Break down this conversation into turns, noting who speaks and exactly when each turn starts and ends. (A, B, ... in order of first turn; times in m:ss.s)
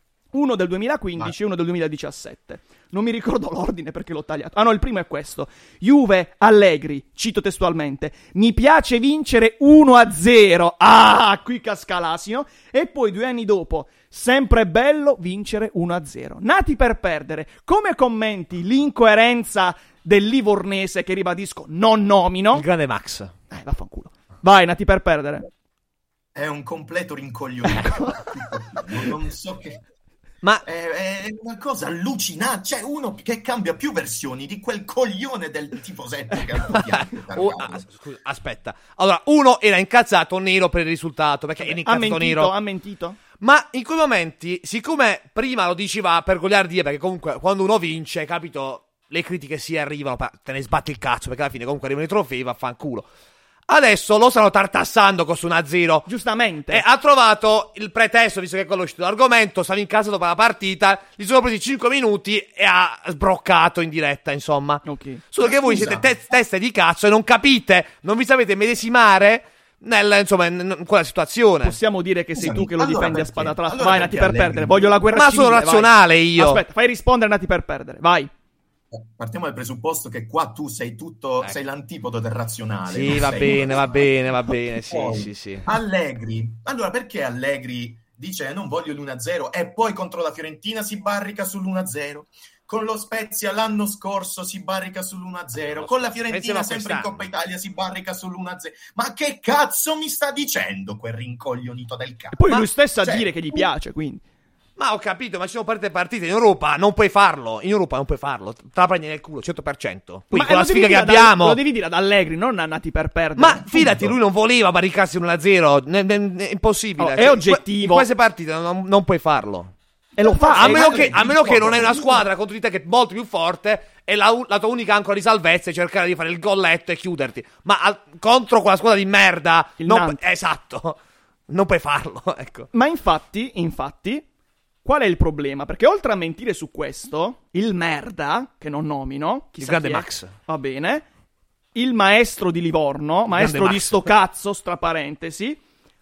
0:00.3-0:22.6 A
0:22.5-0:23.3 B
0:23.5-0:25.5 A
0:26.4-0:29.8 C
0:27.8-0:28.1 A
0:30.6-0:37.9 C
0:36.7-0:42.5 B
0:41.6-0:43.2 A
0:43.4-0:53.1 B
0:53.7-0:56.1 B
0:56.1-0:56.8 A
0:56.7-1:11.8 B
1:04.9-1:05.2 A
1:05.4-1:06.2 C
1:11.6-1:18.3 A
1:12.4-1:14.9 C
1:15.1-1:16.6 B
1:18.9-1:42.4 C
1:22.9-1:25.7 B
1:35.8-1:37.2 B
1:42.3-1:44.2 A
1:43.0-1:43.4 C
1:44.8-1:51.6 B
1:50.3-1:54.1 A
1:53.4-1:59.7 B
1:57.0-1:58.1 A
2:00.2-2:01.2 A
2:00.2-2:02.3 C
2:00.6-2:11.0 B
2:09.8-2:10.2 A
2:11.5-2:12.7 B
2:12.7-2:14.2 A
2:14.8-2:21.0 A
2:19.6-2:20.3 B
2:21.8-2:25.6 A
2:23.3-2:24.1 B